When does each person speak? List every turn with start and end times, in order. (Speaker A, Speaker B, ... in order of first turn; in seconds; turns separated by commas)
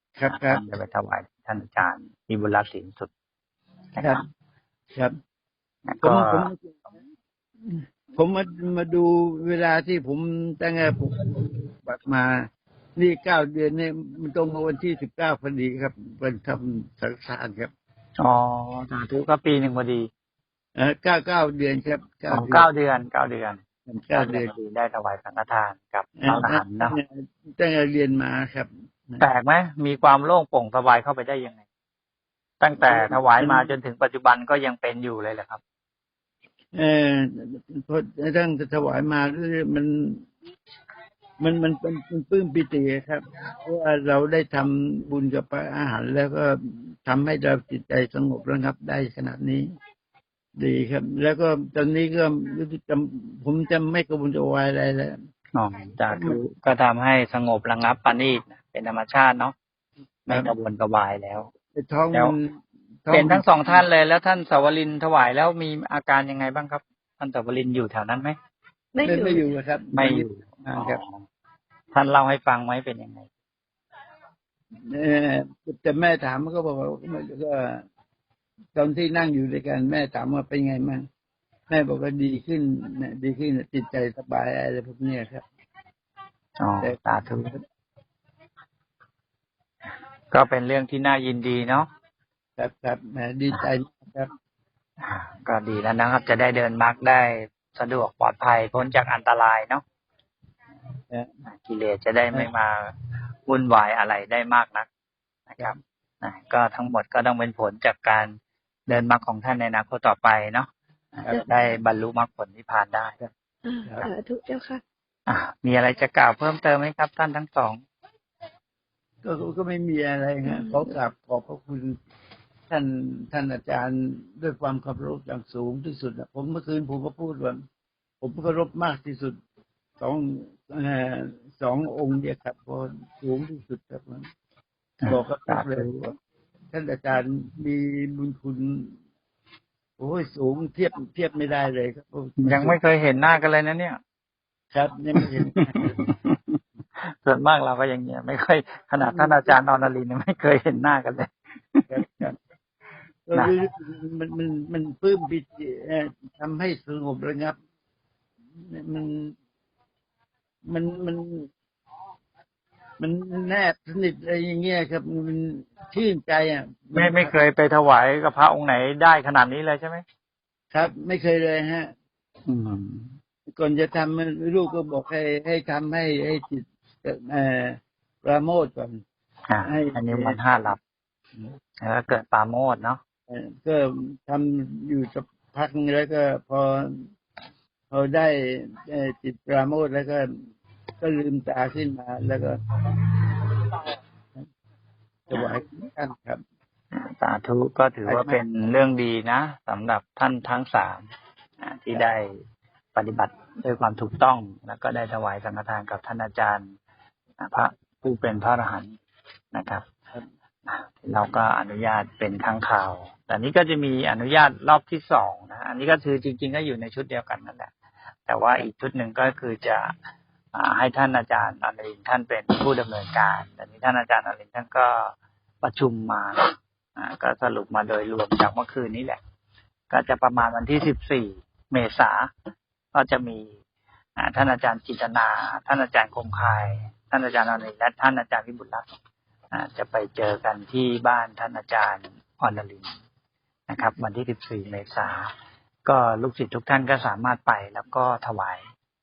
Speaker A: 0.2-0.6, Speaker B: 0.3-3.1, Speaker B: 4.0-4.2, Speaker B: 5.9-6.5, Speaker A: 6.0-6.7, Speaker A: 7.6-12.4, Speaker A: 13.0-17.7, Speaker B: 18.2-20.1, Speaker A: 20.8-22.7, Speaker B: 22.3-23.6, Speaker A: 23.9-24.5, Speaker B: 24.1-27.0, Speaker A: 26.2-29.2, Speaker B: 29.2-31.6, Speaker B: 32.6-35.6, Speaker A: 32.8-33.7, Speaker A: 36.7-40.2, Speaker A: 41.4-49.7, Speaker A: 50.6-55.1, Speaker B: 55.5-59.5, Speaker A: 56.1-56.4, Speaker B: 60.3-61.5, Speaker A: 61.8-63.8, Speaker B: 63.1-68.4, Speaker C: 68.9-69.5, Speaker A: 69.0-71.0, Speaker B: 69.9-71.2, Speaker B: 71.9-73.3, Speaker A: 74.9-77.8, Speaker A: 78.8-81.0, Speaker A: 81.7-85.5, Speaker B: 86.6-87.5, Speaker B: 90.3-91.9, Speaker A: 92.6-94.3, Speaker B: 95.0-99.8, Speaker B: 101.5-102.9, Speaker B: 103.5-104.9, Speaker B: 105.5-108.3, Speaker B: 108.9-110.7, Speaker B: 111.2-113.2, Speaker C: 113.7-114.8, Speaker B: 115.3-117.8, Speaker A: 119.2-122.0, Speaker C: 120.5-120.9, Speaker A: 122.7-127.6, Speaker A: 128.2-129.4, Speaker A: 130.0-134.3, Speaker B: 135.0-136.1, Speaker A: 135.1-136.1, Speaker A: 136.7-138.9, Speaker A: 140.0-142.8, Speaker B: 142.4-144.0, Speaker A: 144.7-145.8, Speaker B: 145.2-152.0, Speaker A: 149.0-149.6, Speaker A: 151.9-152.4, Speaker A: 153.3-157.6, Speaker A: 158.6-159.3, Speaker A: 160.7-161.5, Speaker A: 163.0-167.4, Speaker B: 167.0-170.0, Speaker A: 170.7-171.9, Speaker B: 172.5-173.1, Speaker A: 173.5-179.0, Speaker B: 179.5-180.8, Speaker A: 179.6-180.4, Speaker B: 181.4-183.0, Speaker A: 183.3-186.9, Speaker A: 187.9-190.3, Speaker A: 191.0-192.6, Speaker A: 195.3-196.4, Speaker B: 195.3-195.6, Speaker B: 196.9-201.1, Speaker A: 198.1-198.4, Speaker B: 201.6-202.4, Speaker B: 202.9-206.7, Speaker B: 207.4-208.9, Speaker B: 209.5-209.8, Speaker B: 210.7-217.7, Speaker B: 218.3-219.9, Speaker B: 220.5-226.4, Speaker B: 227.0-229.2, Speaker B: 229.9-232.3, Speaker B: 232.9-233.5, Speaker B: 234.2-238.9, Speaker B: 239.5-242.9, Speaker B: 243.7-245.3, Speaker B: 245.8-248.7